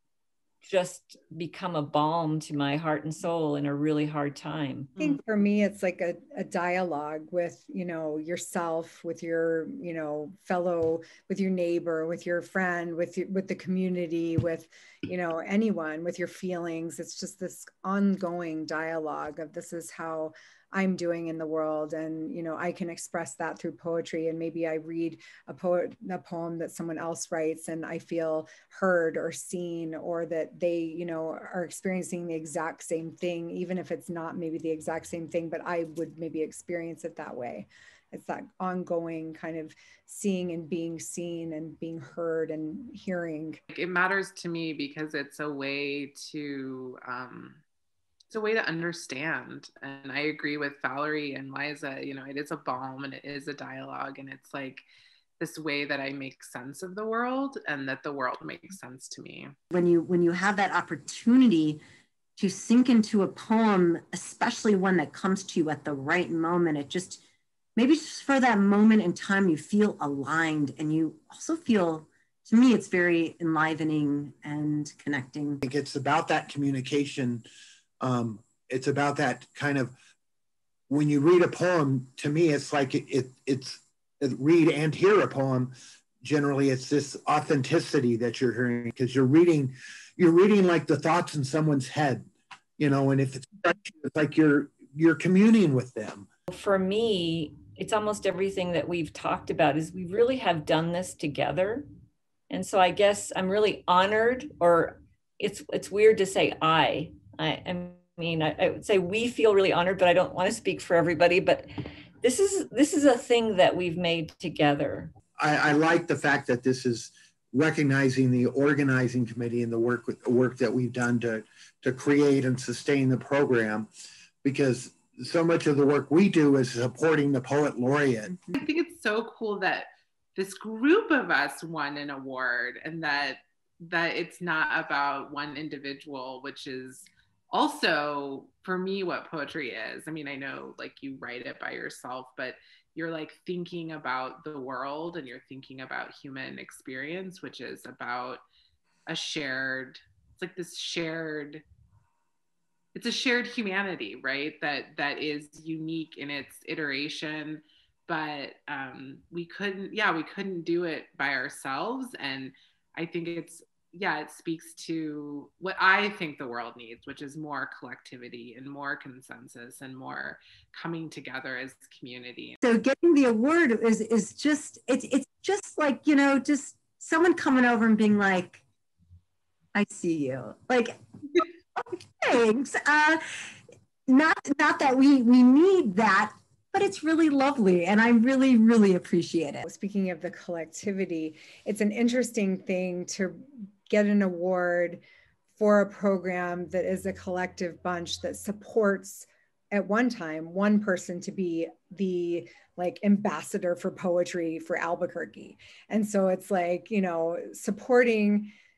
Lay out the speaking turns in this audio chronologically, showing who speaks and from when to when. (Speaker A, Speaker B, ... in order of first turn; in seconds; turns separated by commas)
Speaker A: 0.6-5.0, Speaker B: 5.0-43.6, Speaker C: 43.7-47.6, Speaker C: 48.3-54.9, Speaker C: 55.4-59.5, Speaker D: 59.7-61.8, Speaker D: 62.4-67.2, Speaker D: 67.8-75.6, Speaker E: 75.6-77.5, Speaker E: 78.0-79.9, Speaker E: 80.9-85.7, Speaker E: 86.2-92.3, Speaker E: 92.8-96.3, Speaker A: 96.5-101.9, Speaker A: 102.5-111.7, Speaker A: 112.2-115.1, Speaker E: 115.4-123.9, Speaker E: 124.4-128.3, Speaker C: 128.6-148.4, Speaker C: 149.1-151.6, Speaker C: 152.9-172.6, Speaker D: 172.6-178.6, Speaker D: 179.7-181.0, Speaker D: 181.8-183.2, Speaker D: 184.1-189.6, Speaker B: 189.6-195.0, Speaker B: 195.6-208.5